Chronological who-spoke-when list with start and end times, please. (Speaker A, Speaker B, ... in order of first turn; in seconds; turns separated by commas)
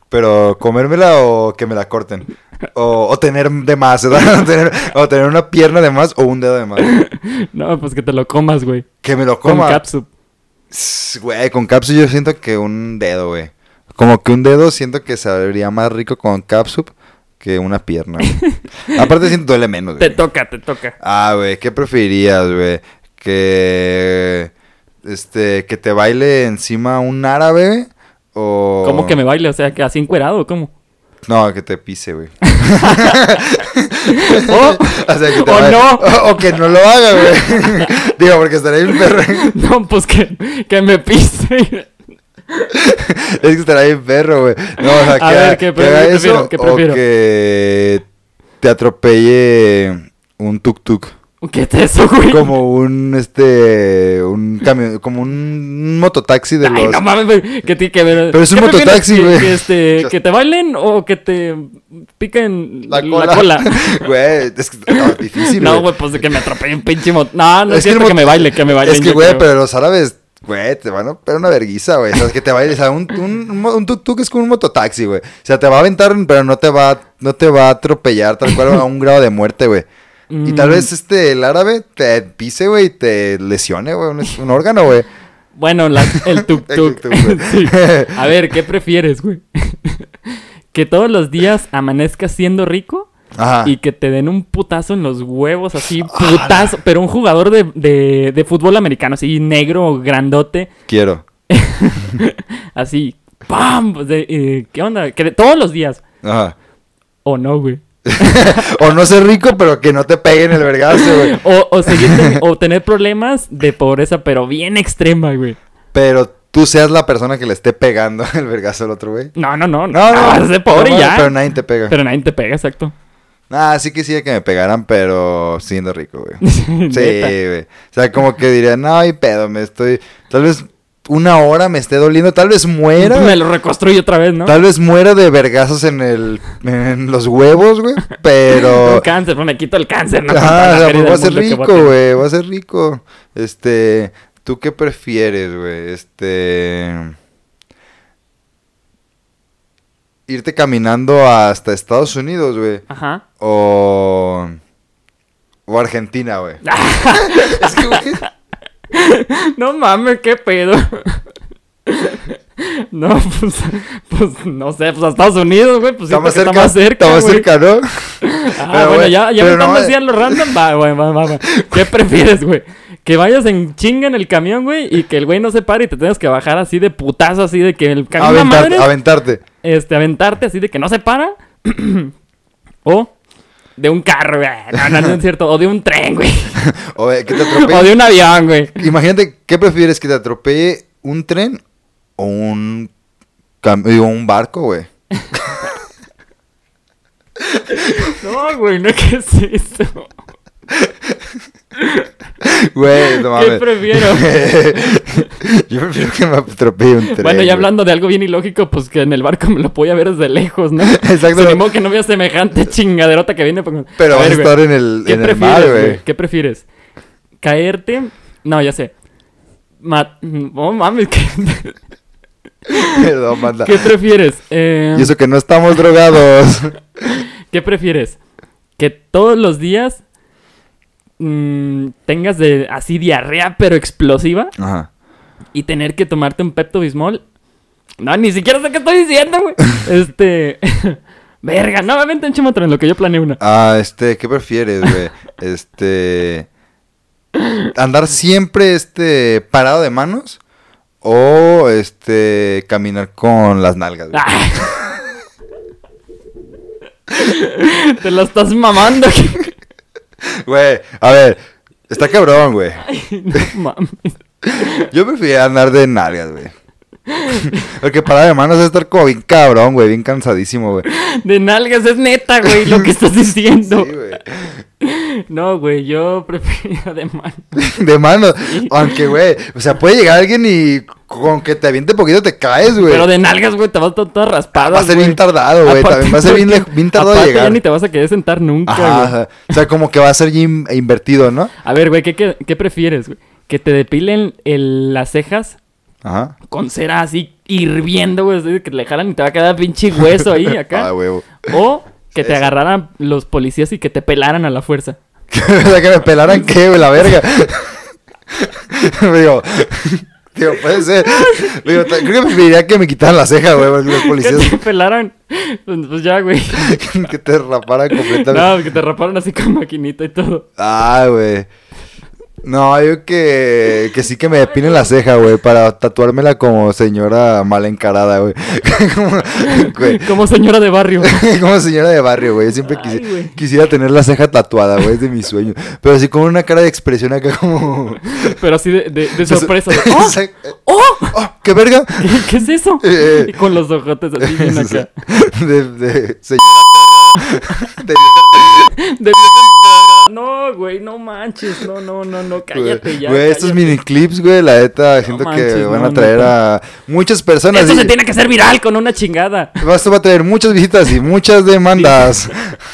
Speaker A: 0.1-6.9, Speaker B: 6.8-8.9, Speaker A: 9.0-9.8, Speaker B: 9.4-10.1, Speaker A: 10.7-20.2, Speaker B: 20.0-20.9, Speaker A: 21.0-24.5, Speaker A: 25.0-29.2, Speaker B: 28.8-30.7, Speaker A: 31.3-39.5, Speaker B: 32.5-33.5, Speaker B: 34.1-36.5, Speaker B: 37.2-37.9, Speaker B: 39.1-41.9, Speaker A: 42.7-48.0, Speaker B: 44.8-47.0, Speaker A: 48.6-51.1, Speaker B: 51.4-52.5, Speaker A: 52.3-57.0, Speaker B: 56.6-64.0, Speaker A: 58.3-60.2, Speaker A: 62.9-66.4, Speaker B: 64.9-69.5, Speaker A: 67.7-79.9, Speaker B: 80.3-80.9, Speaker A: 80.5-85.1, Speaker B: 85.6-93.1, Speaker A: 86.1-88.3, Speaker A: 93.4-93.7, Speaker B: 93.6-100.7, Speaker A: 96.0-96.8, Speaker A: 100.9-101.2, Speaker B: 101.5-106.0, Speaker A: 106.2-106.6, Speaker B: 107.2-108.8, Speaker A: 108.1-112.4, Speaker B: 110.9-115.6, Speaker A: 115.9-119.3, Speaker B: 119.4-121.3, Speaker A: 119.9-122.0, Speaker B: 121.9-122.9, Speaker A: 123.5-133.4, Speaker B: 126.4-127.3, Speaker B: 133.0-134.6, Speaker A: 134.4-139.1, Speaker B: 138.5-142.0, Speaker A: 140.3-147.1, Speaker A: 150.3-152.8, Speaker B: 152.9-153.2, Speaker A: 153.4-154.6, Speaker A: 155.7-158.2, Speaker B: 156.6-158.2, Speaker B: 158.9-161.2, Speaker B: 161.9-167.5, Speaker A: 166.1-170.6, Speaker B: 168.2-178.9, Speaker A: 171.5-171.9, Speaker A: 178.2-179.4, Speaker B: 179.6-182.1, Speaker B: 182.8-183.1, Speaker B: 183.8-186.6, Speaker A: 184.8-185.2, Speaker A: 186.6-188.0, Speaker B: 187.3-188.8, Speaker A: 188.8-191.6, Speaker A: 192.2-192.9, Speaker A: 193.6-195.7, Speaker B: 197.7-200.1, Speaker A: 200.7-201.2, Speaker B: 201.8-202.1, Speaker A: 202.4-207.7, Speaker B: 203.0-204.5, Speaker B: 207.1-216.7, Speaker A: 210.8-211.6, Speaker A: 214.0-216.0, Speaker B: 217.4-218.9, Speaker B: 219.8-221.8, Speaker B: 222.7-223.0, Speaker A: 222.8-223.9, Speaker B: 223.6-225.1, Speaker A: 224.9-226.8, Speaker B: 227.5-228.2, Speaker B: 228.8-230.0, Speaker B: 231.2-234.5, Speaker A: 234.6-234.9, Speaker B: 235.5-237.2, Speaker B: 238.0-243.4, Speaker A: 243.4-246.5, Speaker A: 247.8-250.4, Speaker A: 251.0-255.0, Speaker B: 254.1-254.8, Speaker B: 257.1-259.5, Speaker A: 260.3-261.4, Speaker A: 261.9-263.5, Speaker B: 262.9-264.9, Speaker A: 264.4-266.5, Speaker B: 267.1-267.7, Speaker A: 267.3-270.9, Speaker B: 270.9-273.9, Speaker A: 272.5-272.9, Speaker A: 273.7-274.6, Speaker B: 274.8-277.6, Speaker A: 277.6-283.1, Speaker B: 278.5-279.0, Speaker B: 282.8-289.1, Speaker A: 284.6-287.6, Speaker A: 288.7-291.5, Speaker B: 291.6-295.6, Speaker A: 296.0-296.4, Speaker B: 296.5-300.9, Speaker A: 300.2-301.5, Speaker B: 301.5-305.0, Speaker A: 302.1-302.5, Speaker A: 305.3-307.8, Speaker A: 308.4-314.6, Speaker B: 311.1-312.0, Speaker B: 313.9-316.9, Speaker A: 316.5-318.6, Speaker B: 317.9-320.5, Speaker A: 320.6-321.5, Speaker A: 322.4-330.1, Speaker B: 324.5-324.9, Speaker B: 329.4-331.2, Speaker A: 331.0-338.4, Speaker B: 332.6-333.4, Speaker B: 338.1-341.2, Speaker A: 339.2-340.4, Speaker A: 341.1-342.3, Speaker B: 342.0-344.9, Speaker A: 342.8-343.3, Speaker A: 344.2-348.7, Speaker B: 347.2-347.6, Speaker B: 348.8-353.8, Speaker A: 352.5-357.9, Speaker B: 355.0-356.3, Speaker B: 357.5-359.6, Speaker A: 359.6-362.6, Speaker B: 361.8-362.1